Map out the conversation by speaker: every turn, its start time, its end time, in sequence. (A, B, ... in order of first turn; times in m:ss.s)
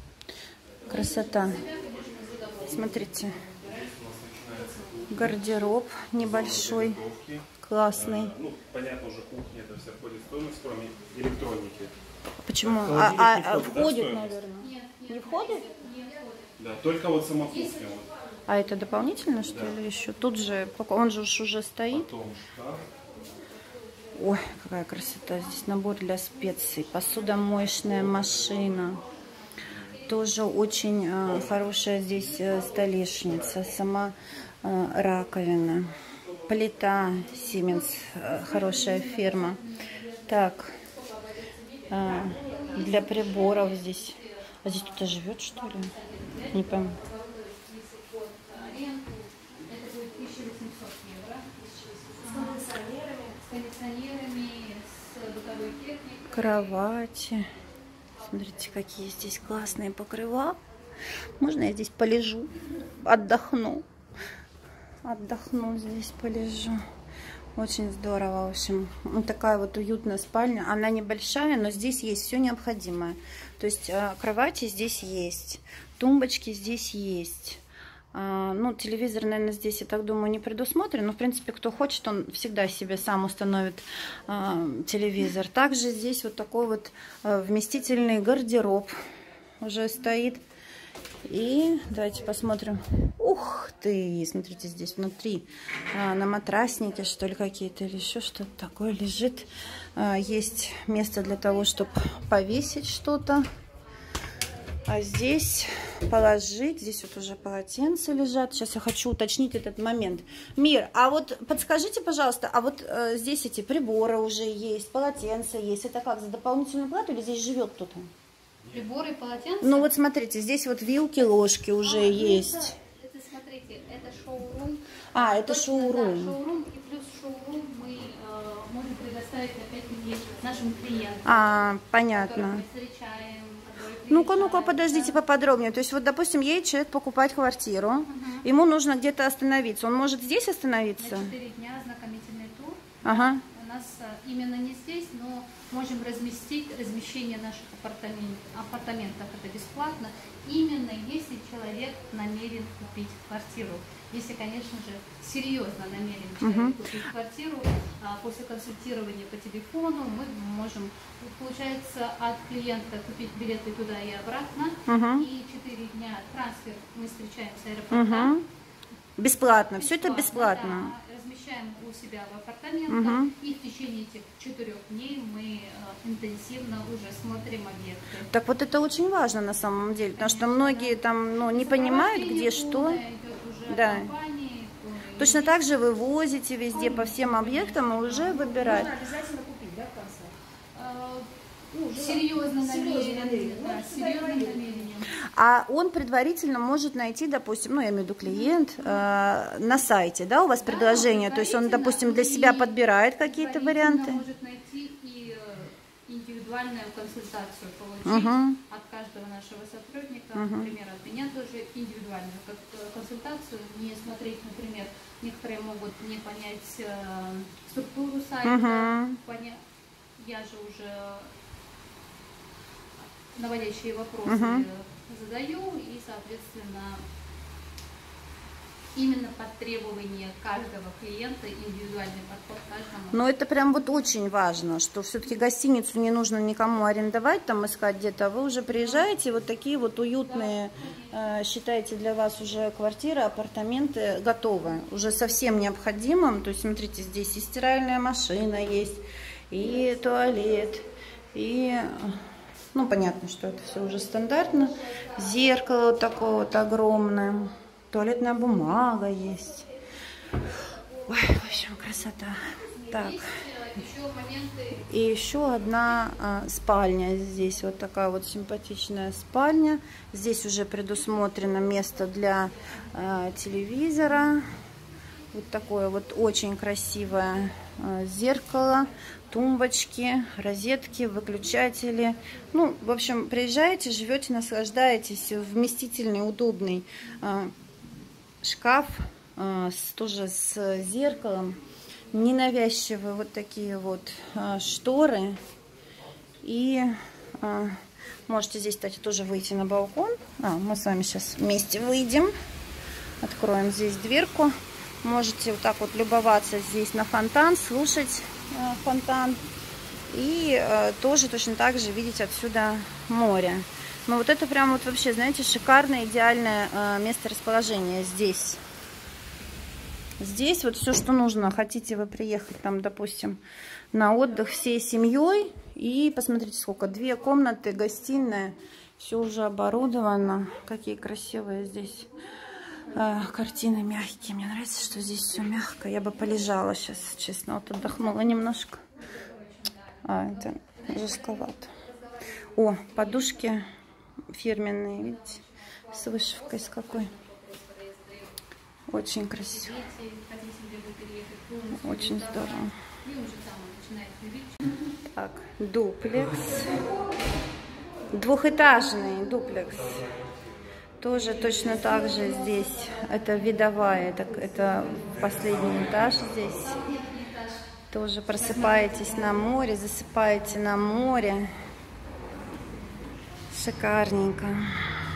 0:00.8-0:03.5 A
0:00.9-0:01.6 B
0:02.5-0:03.0 C
0:02.6-0:03.4 B
0:03.6-0:11.9 C
0:05.1-0:07.0 B
0:07.6-0:08.3 B
0:12.4-0:15.7 B
0:12.6-0:14.4 C
0:14.6-0:16.6 A
0:16.6-0:18.1 C
0:17.5-0:17.8 A
0:18.5-0:22.1 B
0:19.5-0:19.8 C
0:21.9-0:22.9 C
0:24.1-0:29.0 B
0:30.0-0:35.9 B
0:31.2-0:31.7 C
0:36.4-0:39.6 B
0:38.4-0:44.3 A
0:40.3-0:40.8 B
0:41.9-0:45.9 B
0:45.7-0:51.5 A
0:46.5-0:47.0 B
0:51.6-0:53.4 D
0:52.2-0:52.7 A
0:53.4-0:56.7 A
0:56.3-0:57.5 B
0:58.3-1:00.6 B
1:01.4-1:03.8 B
1:05.0-1:06.8 B
1:07.6-1:17.6 B
1:18.1-1:28.9 B
1:29.6-1:30.4 B
1:31.2-1:43.5 B
1:44.8-1:58.1 B
1:58.7-1:59.9 A
1:59.6-2:02.7 B
2:01.8-2:11.6 A
2:05.1-2:06.4 B
2:11.2-2:12.6 B
2:12.1-2:15.2 A
2:14.1-2:21.3 B
2:18.1-2:18.4 A
2:21.0-2:48.3 A
2:23.0-2:23.4 B
2:36.4-2:36.8 B
2:44.8-2:45.3 B
2:47.9-2:48.4 B
2:49.2-2:50.9 B
2:49.7-2:58.3 A
2:52.9-2:53.3 B
2:58.3-3:03.0 B
3:00.2-3:05.5 A
3:03.7-3:04.1 B
3:05.2-3:08.9 B
3:06.7-3:08.8 A
3:08.3-3:10.3 D
3:10.7-3:11.3 A
3:11.7-3:14.7 D
3:11.9-3:15.1 A
3:15.3-3:24.2 B
3:18.3-3:19.0 A
3:20.6-3:22.7 A
3:23.3-3:39.6 A
3:28.0-3:28.6 B
3:30.3-3:30.7 B
3:38.4-3:39.2 B
3:40.2-3:41.3 A
3:43.3-3:47.0 A
3:44.2-3:44.6 B
3:48.9-3:53.2 A
3:53.1-4:12.2 B
4:00.3-4:01.1 A
4:12.7-4:19.7 B
4:21.0-4:23.2 B
4:22.9-4:24.9 A
4:24.9-4:34.5 B
4:35.3-4:47.5 B
4:48.4-4:51.6 B
4:52.1-4:55.4 B
4:56.4-5:02.3 B
5:03.2-5:09.4 B
5:10.1-5:18.6 B
5:20.2-5:23.4 B
5:23.9-5:32.1 B
5:32.9-5:38.8 B
5:39.2-5:42.2 A
5:40.0-5:41.7 B
5:42.5-5:43.7 B
5:44.3-5:45.4 B
5:45.4-5:48.3 A
5:45.9-5:47.1 B
5:48.9-5:49.8 B
5:49.4-5:54.7 A
5:51.8-5:52.7 B
5:55.1-5:56.8 B
5:56.1-5:56.8 C
5:58.1-6:00.0 B
5:59.6-6:00.6 C
6:01.0-6:06.8 B
6:01.4-6:05.1 A
6:05.1-6:06.9 C
6:05.6-6:07.7 A
6:07.9-6:11.5 B
6:08.3-6:09.4 A
6:13.5-6:14.7 B